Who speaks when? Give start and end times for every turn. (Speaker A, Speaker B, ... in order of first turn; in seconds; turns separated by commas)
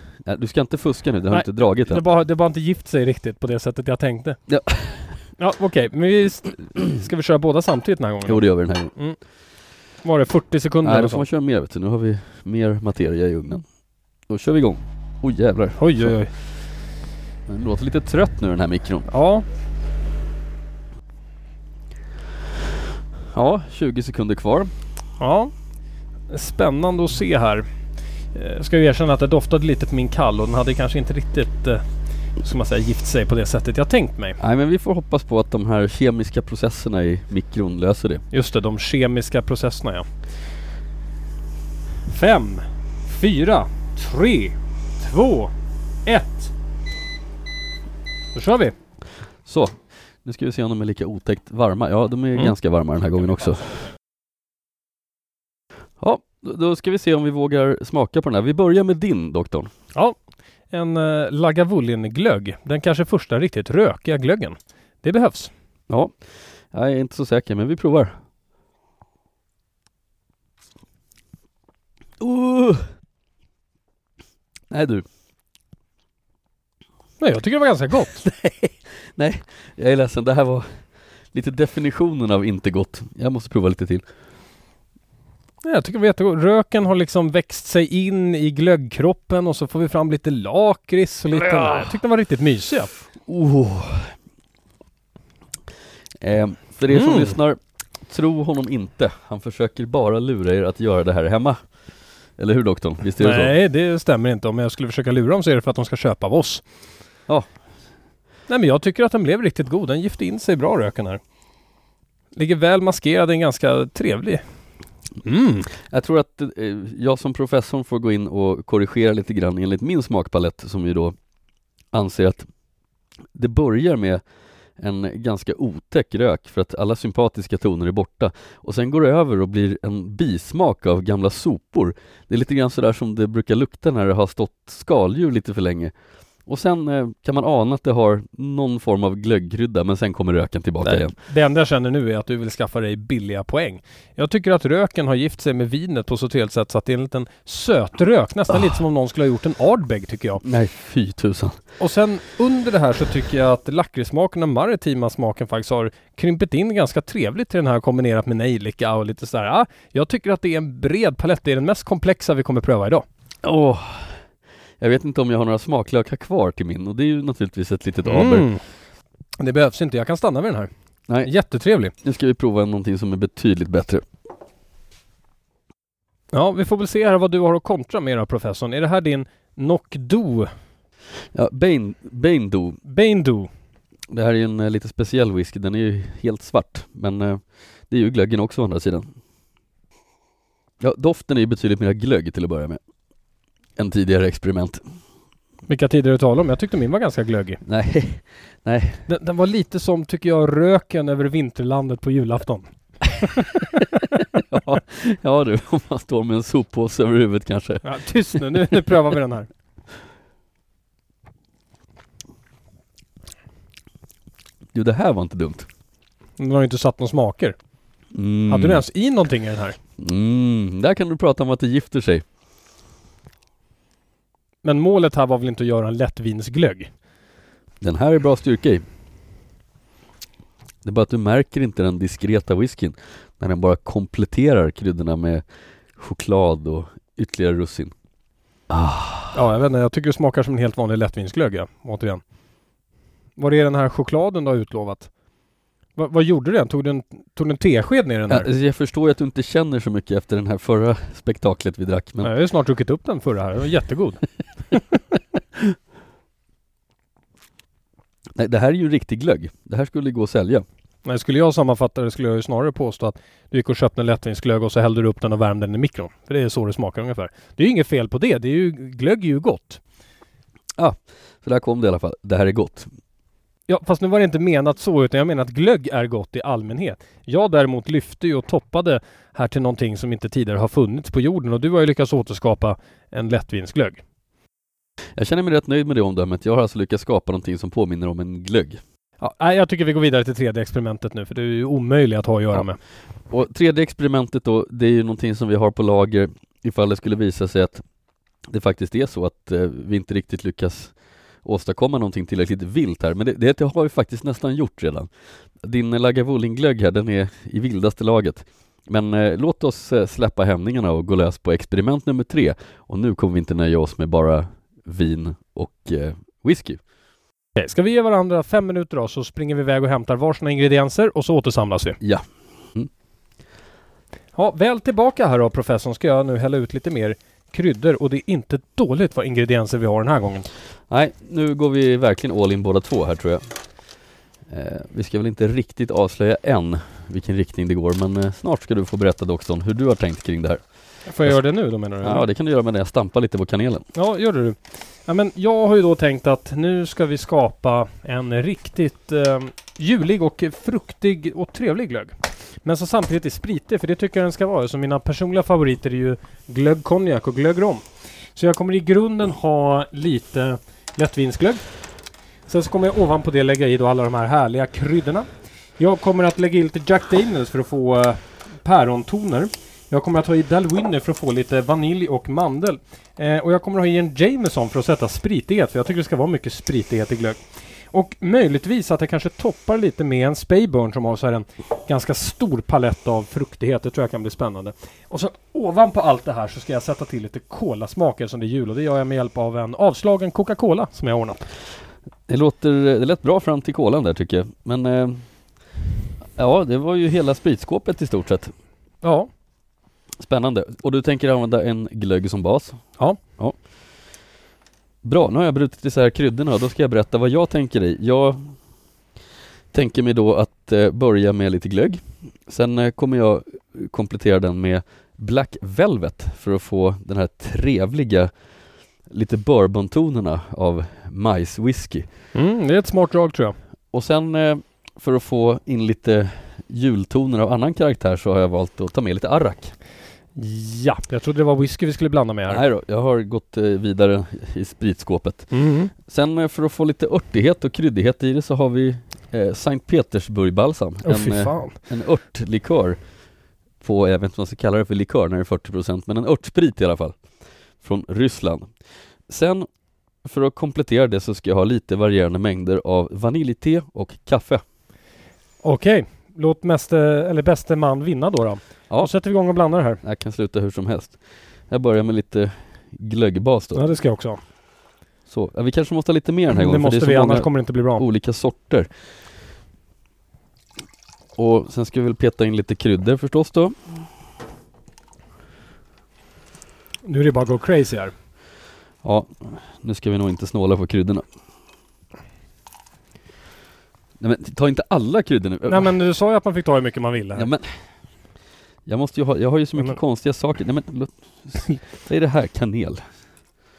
Speaker A: 0.2-2.0, Speaker B: 1.3-4.4, Speaker A: 4.5-5.2, Speaker B: 5.4-8.4, Speaker A: 8.2-8.9, Speaker B: 10.0-11.2, Speaker A: 10.8-13.6, Speaker A: 14.3-16.1, Speaker B: 15.8-16.3, Speaker A: 17.5-19.1, Speaker B: 19.1-19.4, Speaker A: 23.3-24.7, Speaker B: 25.2-25.5, Speaker B: 26.3-27.6, Speaker B: 28.3-31.8, Speaker B: 32.4-34.4, Speaker A: 34.4-38.2, Speaker B: 38.3-40.0, Speaker B: 42.1-45.5, Speaker B: 46.0-46.5, Speaker B: 48.3-48.7, Speaker A: 49.4-53.9, Speaker A: 56.0-59.7, Speaker B: 60.7-65.5, Speaker A: 65.9-66.1, Speaker A: 66.7-68.1, Speaker A: 72.2-72.8, Speaker A: 74.7-75.0, Speaker B: 77.2-78.2, Speaker A: 78.2-80.7, Speaker A: 81.3-84.0, Speaker B: 85.6-92.9, Speaker A: 91.3-91.9, Speaker A: 93.2-94.1, Speaker A: 96.2-101.6, Speaker B: 96.9-97.3, Speaker A: 102.4-103.5, Speaker B: 103.2-106.6, Speaker B: 108.5-111.2, Speaker B: 112.3-114.4, Speaker B: 115.2-115.7, Speaker A: 115.7-121.1, Speaker A: 121.9-122.4, Speaker A: 123.3-124.2, Speaker A: 124.8-135.9, Speaker A: 136.4-141.1, Speaker B: 140.8-150.4, Speaker A: 150.4-151.6, Speaker B: 151.8-163.0, Speaker A: 163.4-164.2, Speaker A: 164.8-168.5, Speaker B: 168.0-168.6, Speaker B: 169.4-170.7, Speaker B: 171.2-171.9, Speaker A: 172.0-174.0, Speaker B: 176.3-180.5, Speaker A: 181.3-182.8, Speaker B: 182.8-183.5, Speaker A: 184.1-189.1, Speaker A: 190.8-192.8, Speaker A: 193.8-194.8, Speaker B: 195.7-197.6, Speaker A: 197.6-199.0, Speaker B: 199.1-202.7, Speaker B: 203.2-204.4, Speaker A: 204.3-207.8, Speaker B: 207.8-209.5, Speaker A: 214.7-215.7, Speaker B: 216.4-217.6, Speaker A: 218.1-218.8, Speaker B: 218.5-219.8, Speaker A: 220.0-222.2, Speaker B: 224.6-226.9, Speaker A: 227.8-228.8, Speaker A: 230.8-235.4, Speaker A: 235.9-237.9, Speaker A: 238.7-239.3, Speaker B: 239.3-242.2, Speaker B: 243.4-245.1, Speaker B: 245.9-248.5, Speaker A: 248.3-252.3, Speaker B: 252.2-254.2, Speaker A: 258.4-260.6, Speaker B: 261.0-269.8, Speaker A: 270.8-272.9, Speaker B: 273.7-284.0, Speaker A: 285.1-288.8, Speaker B: 289.2-292.8, Speaker A: 293.3-297.8, Speaker A: 298.5-305.1, Speaker A: 305.6-316.8, Speaker B: 317.6-322.0, Speaker A: 322.0-322.9, Speaker B: 324.4-330.5, Speaker A: 330.9-333.4, Speaker A: 334.5-340.6, Speaker B: 341.1-342.2, Speaker A: 342.0-343.9, Speaker B: 343.9-357.8, Speaker B: 358.4-361.6, Speaker B: 362.5-365.2, Speaker B: 365.8-377.4, Speaker B: 377.9-391.5, Speaker A: 392.3-395.2, Speaker A: 396.4-398.5, Speaker B: 399.0-399.3, Speaker A: 400.2-402.8, Speaker A: 405.0-408.5, Speaker A: 409.7-418.3, Speaker A: 419.1-422.1, Speaker B: 422.3-423.6, Speaker A: 423.9-429.7, Speaker B: 430.4-432.6, Speaker A: 432.5-443.0, Speaker B: 435.5-435.9, Speaker B: 441.0-441.8, Speaker A: 443.8-447.2, Speaker A: 447.8-448.7, Speaker A: 449.3-449.7, Speaker A: 450.2-454.6, Speaker B: 455.6-460.0, Speaker A: 460.0-461.2, Speaker A: 461.7-463.8, Speaker B: 463.7-464.4, Speaker A: 465.3-468.9, Speaker B: 466.5-468.0, Speaker A: 471.4-473.9, Speaker B: 477.0-478.1, Speaker A: 479.0-481.2, Speaker A: 484.2-485.9, Speaker B: 485.7-487.5, Speaker A: 487.4-487.6, Speaker A: 488.9-493.0